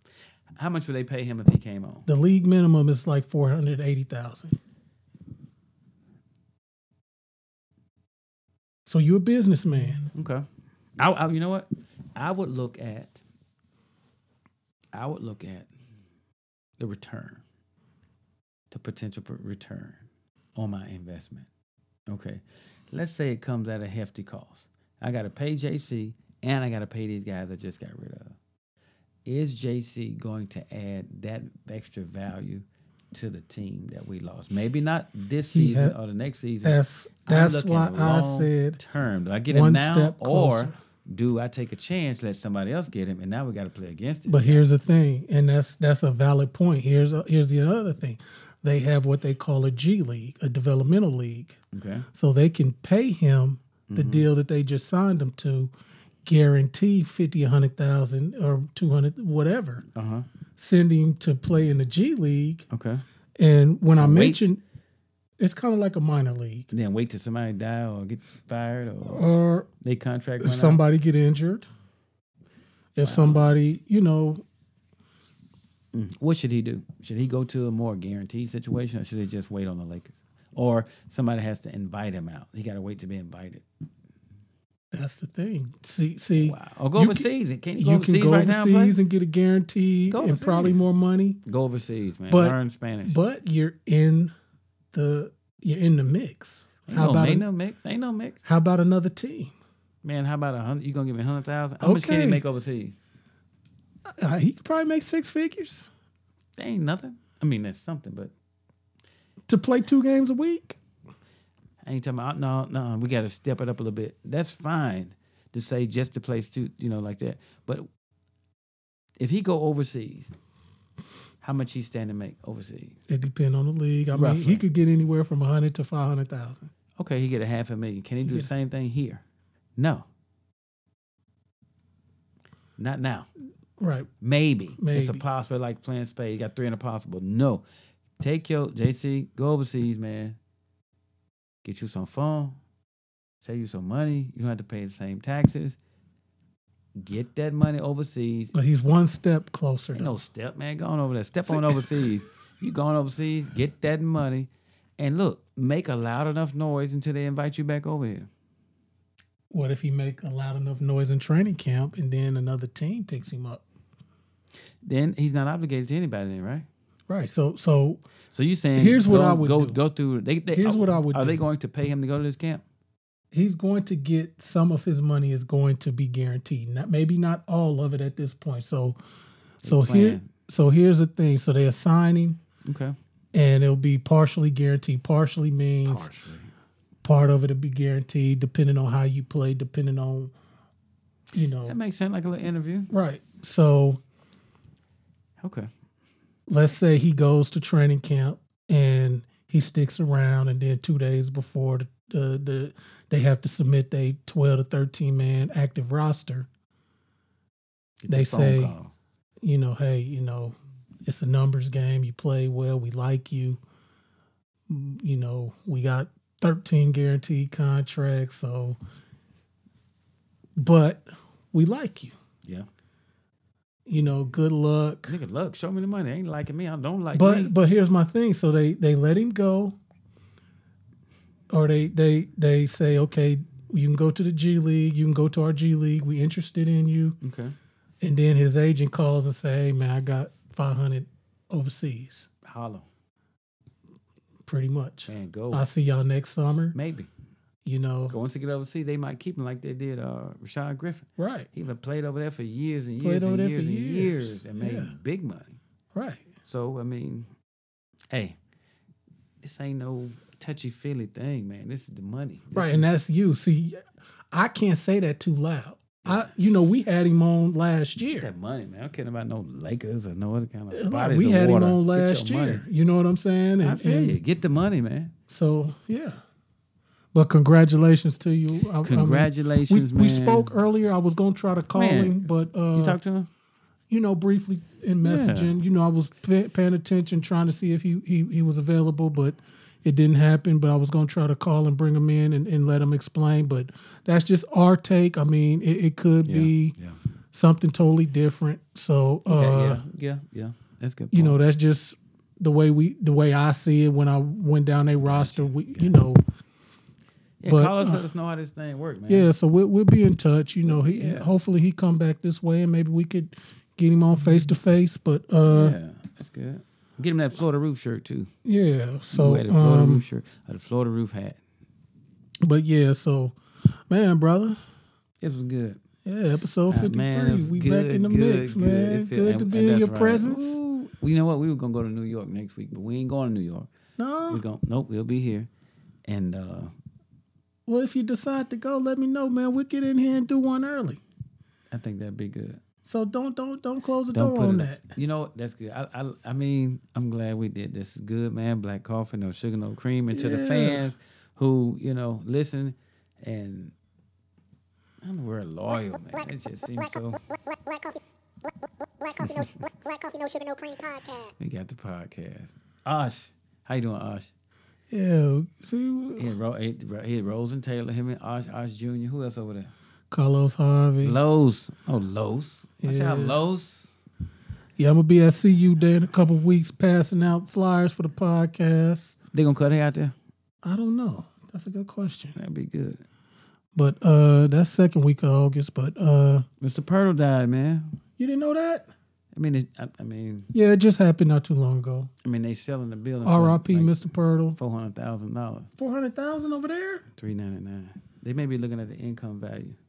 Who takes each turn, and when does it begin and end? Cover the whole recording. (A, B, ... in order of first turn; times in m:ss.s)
0:00.5-0:02.1 A
0:02.1-0:04.6 B
0:08.9-0:10.1 B
0:10.1-0:13.2 A
0:14.9-0:15.7 A
0:16.8-0:17.4 A
0:18.7-0:21.5 A
0:22.1-0:28.4 A
0:29.2-0:44.6 A
0:35.5-0:36.0 B
0:36.6-0:38.8 B
0:39.5-0:40.8 B
0:44.3-0:51.6 B
0:51.7-0:52.1 A
0:52.1-0:55.7 B
0:53.9-0:54.3 A
0:56.2-0:59.8 B
0:59.9-1:00.3 A
1:00.6-1:02.6 B
1:02.7-1:03.0 A
1:03.4-1:04.6 B
1:04.0-1:04.5 A
1:05.4-1:06.7 B
1:06.7-1:09.2 A
1:09.0-1:09.7 B
1:09.8-1:10.8 A
1:10.4-1:11.7 B
1:13.0-1:14.4 B
1:13.0-1:13.5 A
1:15.9-1:23.6 A
1:24.9-1:31.4 B
1:26.4-1:29.0 A
1:30.1-1:30.8 A
1:31.4-1:33.2 A
1:32.3-1:34.3 B
1:34.9-1:37.4 B
1:36.9-1:38.4 A
1:38.4-1:39.5 B
1:40.0-1:43.0 A
1:41.8-1:42.4 B
1:44.1-1:45.9 B
1:46.6-1:48.3 A
1:49.5-1:50.8 B
1:51.8-1:57.9 A
1:59.2-2:00.3 A
2:01.4-2:03.0 A
2:03.1-2:06.7 B
2:04.1-2:04.6 A
2:07.0-2:09.2 A
2:09.8-2:10.1 A
2:12.8-2:13.3 A
2:13.8-2:14.1 B
2:14.2-2:17.6 A
2:14.8-2:15.2 B
2:18.2-2:20.4 A
2:21.6-2:22.6 A
2:23.4-2:25.8 A
2:27.0-2:28.6 A
2:28.5-2:30.2 B
2:29.9-2:38.3 A
2:31.5-2:31.8 B
2:39.5-2:43.6 B
2:44.8-2:46.7 A
2:47.1-2:48.0 B
2:48.3-2:52.6 A
2:48.8-2:49.8 B
2:50.5-2:51.4 B
2:53.3-2:59.0 B
2:59.6-3:02.4 B
2:59.6-3:00.3 A
3:02.6-3:03.0 A
3:03.3-3:06.1 B
3:05.9-3:06.5 A
3:07.0-3:10.3 B
3:11.3-3:11.8 B
3:11.6-3:12.9 A
3:12.9-3:14.0 B
3:15.4-3:15.7 A
3:16.5-3:26.5 B
3:28.0-3:28.9 A
3:28.1-3:28.8 B
3:29.4-3:33.6 B
3:34.7-3:38.8 B
3:40.6-3:42.2 B
3:43.9-3:45.2 B
3:45.1-3:47.5 A
3:47.2-3:49.8 B
3:51.5-3:57.2 B
3:57.2-3:57.6 A
3:58.0-4:02.3 B
4:02.4-4:02.9 A
4:04.5-4:06.8 B
4:05.1-4:05.7 A
4:06.7-4:07.1 A
4:07.7-4:08.2 B
4:08.1-4:15.6 A
4:11.2-4:11.5 B
4:13.0-4:14.9 B
4:15.9-4:16.3 B
4:16.4-4:17.3 A
4:18.1-4:18.4 A
4:19.4-4:22.9 A
4:22.5-4:28.3 B
4:26.0-4:26.3 A
4:28.1-4:32.6 A
4:30.7-4:34.2 B
4:33.6-4:35.1 A
4:35.3-4:36.2 B
4:37.1-4:43.0 B
4:38.8-4:40.5 A
4:41.7-4:43.3 A
4:43.9-4:56.8 B
4:45.0-4:45.6 A
4:56.2-4:57.0 A
4:57.3-4:59.8 B
4:59.3-5:01.4 A
5:01.1-5:06.2 B
5:05.0-5:06.0 A
5:07.4-5:09.3 A
5:07.5-5:08.0 B
5:09.1-5:15.8 B
5:10.6-5:11.3 A
5:15.4-5:18.3 A
5:18.4-5:20.1 B
5:19.1-5:21.4 A
5:22.4-5:24.6 B
5:25.2-5:25.8 A
5:26.0-5:30.6 B
5:26.7-5:33.7 A
5:34.0-5:34.4 B
5:34.3-5:35.5 A
5:36.0-5:36.7 A
5:37.7-5:41.0 B
5:41.7-5:42.6 A
5:42.8-5:44.8 B
5:44.1-5:53.7 A
5:50.1-5:50.8 B
5:55.0-5:57.2 A
5:55.9-6:01.3 C
6:01.4-6:04.3 A
6:04.9-6:06.3 B
6:06.2-6:09.7 A
6:10.1-6:11.2 B
6:11.0-6:14.0 A
6:12.8-6:13.4 B
6:14.8-6:19.2 B
6:19.3-6:20.2 A
6:20.6-6:22.4 B
6:22.4-6:23.0 A
6:23.8-6:26.5 B
6:26.6-6:28.0 A
6:28.2-6:28.9 B
6:29.3-6:30.5 A
6:30.5-6:32.1 B
6:32.2-6:35.7 A
6:33.2-6:34.6 B
6:35.8-6:37.0 B
6:37.2-6:39.8 A